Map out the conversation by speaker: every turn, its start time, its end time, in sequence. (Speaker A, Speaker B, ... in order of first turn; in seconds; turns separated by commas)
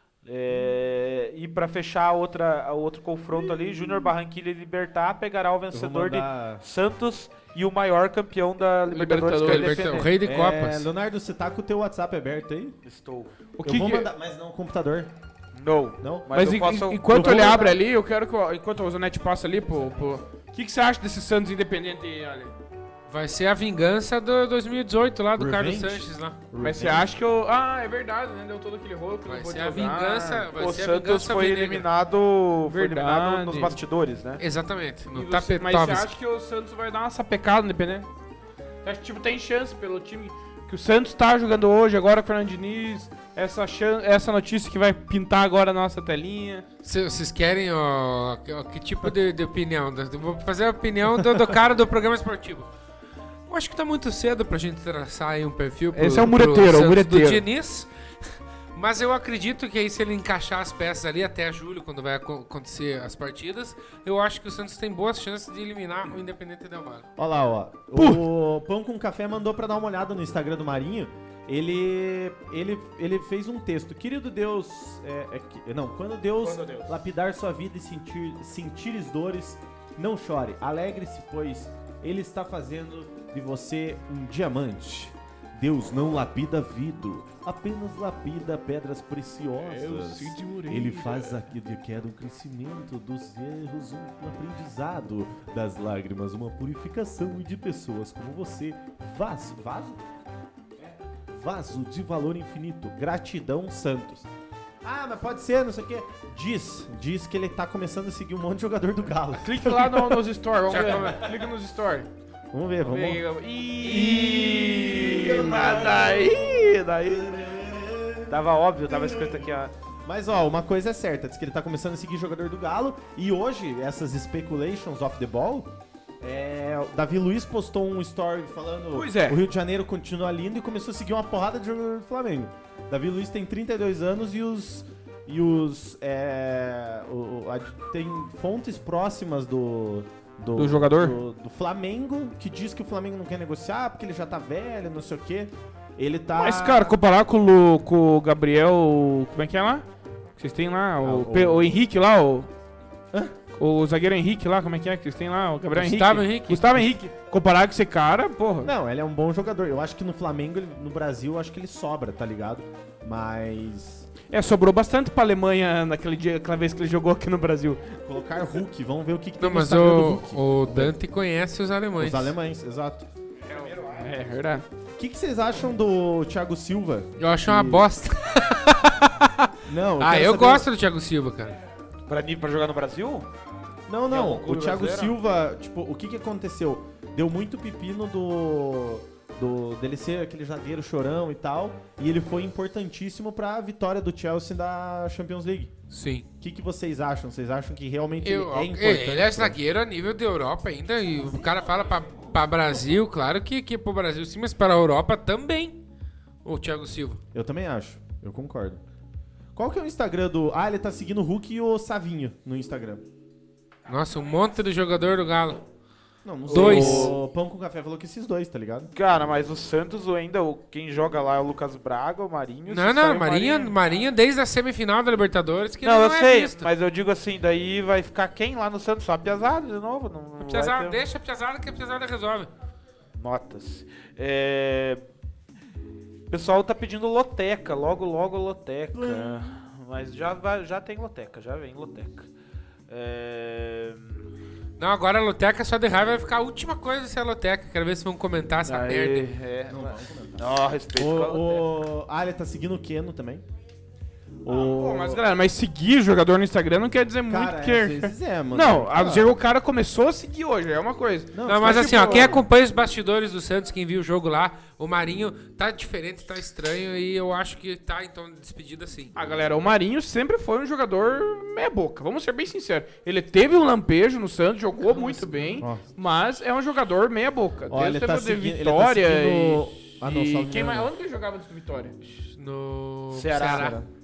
Speaker A: 0.2-10.1, Speaker B: 5.7-6.6, Speaker C: 8.9-10.1, Speaker D: 9.4-10.9, Speaker B: 10.2-12.8, Speaker A: 12.8-13.3, Speaker C: 13.6-14.1, Speaker B: 13.6-15.1, Speaker A: 15.5-17.7, Speaker B: 16.0-16.3, Speaker C: 16.3-22.5, Speaker B: 17.1-17.8, Speaker D: 23.1-26.4, Speaker B: 25.4-27.1, Speaker C: 26.6-30.5, Speaker D: 29.3-31.9, Speaker A: 30.6-34.4, Speaker C: 32.7-33.8, Speaker D: 34.4-36.1, Speaker C: 35.1-38.1, Speaker C: 38.8-46.6, Speaker D: 46.8-52.7, Speaker D: 53.5-57.9, Speaker C: 55.9-57.4, Speaker D: 58.7-67.0, Speaker B: 67.2-100.0, Speaker C: 67.9-68.2, Speaker A: 76.4-76.9, Speaker C: 89.6-91.4, Speaker B: 101.3-104.3, Speaker B: 104.8-110.2, Speaker C: 109.4-112.1, Speaker D: 110.7-111.3, Speaker B: 110.8-111.1, Speaker B: 112.5-113.2, Speaker C: 112.8-117.4, Speaker B: 113.8-146.9, Speaker A: 118.3-119.7, Speaker C: 128.9-129.4, Speaker C: 140.6-141.2, Speaker C: 146.4-149.8, Speaker C: 150.4-152.5, Speaker B: 151.0-151.7, Speaker C: 153.6-158.7, Speaker D: 155.8-156.8, Speaker B: 158.6-164.1, Speaker C: 164.3-168.0, Speaker B: 168.0-171.0, Speaker D: 169.4-172.3, Speaker B: 172.0-173.1, Speaker A: 173.4-174.2, Speaker C: 173.5-174.6, Speaker B: 174.9-177.8, Speaker D: 177.2-181.6, Speaker B: 179.7-180.7, Speaker A: 182.1-183.2, Speaker B: 183.9-195.7, Speaker A: 184.1-185.2, Speaker D: 195.9-196.2, Speaker B: 196.4-199.6, Speaker D: 198.2-205.8, Speaker D: 206.4-207.2, Speaker B: 207.3-208.8, Speaker B: 209.5-213.0, Speaker D: 213.8-215.6, Speaker B: 216.2-218.9, Speaker C: 216.5-217.2, Speaker D: 216.5-217.1, Speaker A: 218.9-223.7, Speaker D: 222.7-226.7, Speaker A: 225.8-231.0, Speaker D: 230.4-232.5, Speaker A: 233.2-235.0, Speaker A: 236.3-242.3, Speaker B: 238.9-239.6, Speaker A: 242.9-244.3, Speaker D: 244.8-249.3, Speaker A: 248.6-251.7, Speaker B: 249.7-253.4, Speaker B: 254.4-255.2, Speaker C: 254.5-262.4, Speaker B: 257.3-259.4, Speaker B: 261.3-262.4, Speaker D: 261.4-269.1, Speaker C: 269.1-281.9, Speaker B: 274.9-275.8, Speaker B: 277.7-280.9, Speaker D: 282.0-283.8, Speaker A: 283.1-283.8, Speaker B: 283.5-283.9